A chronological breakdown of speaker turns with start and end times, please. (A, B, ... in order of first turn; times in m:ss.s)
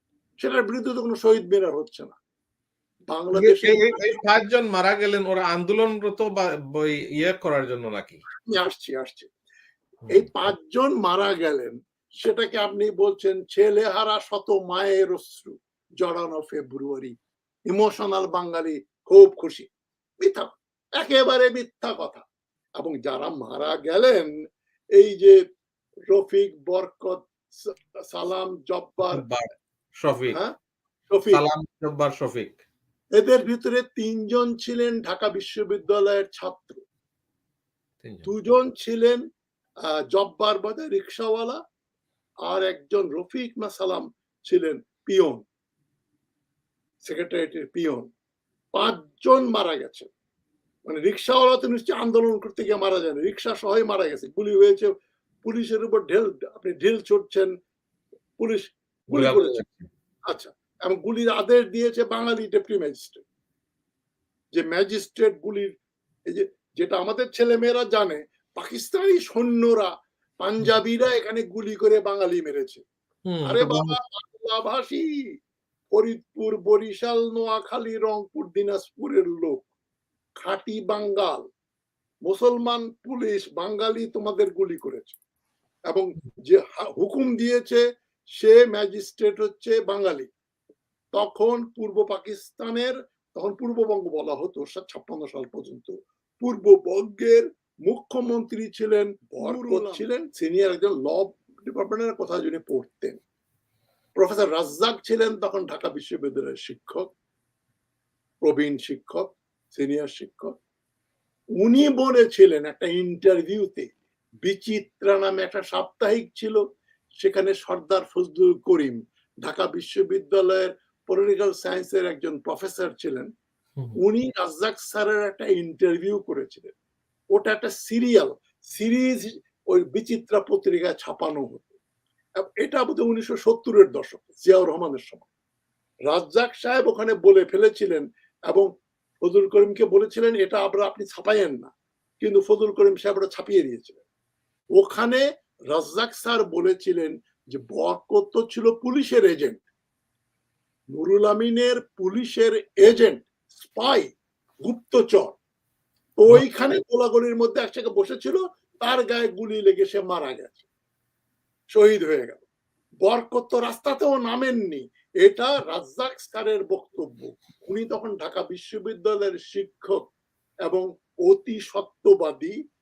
0:00.4-0:02.2 A
0:03.1-0:04.2 A
0:03.3-0:08.2 B
0:08.5-0:09.3 A
0:10.1-0:17.1 A
0:17.7-0:19.7 A
0:20.2-0:22.2 A
0:22.8-0:24.3 A
0:25.0-0:25.4 A
0:26.1-0:29.2 A
0:29.1-0:29.5 B
0:30.0-0:30.4 B
0:31.1-0:31.4 A
0:31.3-0:32.6 B
0:33.2-0:36.8 A
0:38.0-0:38.3 B
0:38.2-0:39.2 A
0:39.9-0:41.6 A
0:42.5-0:45.4 A
0:47.0-0:48.1 A
0:48.7-0:50.1 A
0:50.8-0:54.9 A
0:55.4-0:57.5 A
0:58.4-0:59.6 A
0:59.1-0:59.9 B
1:00.3-1:03.2 A
1:04.5-1:05.7 A
1:06.3-1:09.9 A
1:10.4-1:12.8 A
1:13.3-1:14.0 B
1:13.4-1:15.0 A
1:15.9-1:19.7 A
1:20.4-1:21.4 A
1:22.2-1:25.2 A
1:25.9-1:27.8 A
1:28.4-1:30.3 A
1:31.1-1:43.2 A
1:39.4-1:40.0 B
1:44.2-1:47.0 A
1:48.4-1:50.5 A
1:51.6-1:53.9 A
1:54.4-1:56.6 A
1:57.2-2:03.3 A
2:04.0-2:06.7 A
2:07.3-2:11.7 A
2:12.4-2:15.3 A
2:16.1-2:18.7 A
2:19.2-2:24.0 A
2:24.8-2:29.6 A
2:30.9-2:34.1 A
2:34.6-2:35.4 A
2:36.2-2:40.6 A
2:41.7-2:42.4 A
2:43.0-2:50.0 A
2:50.7-2:52.5 A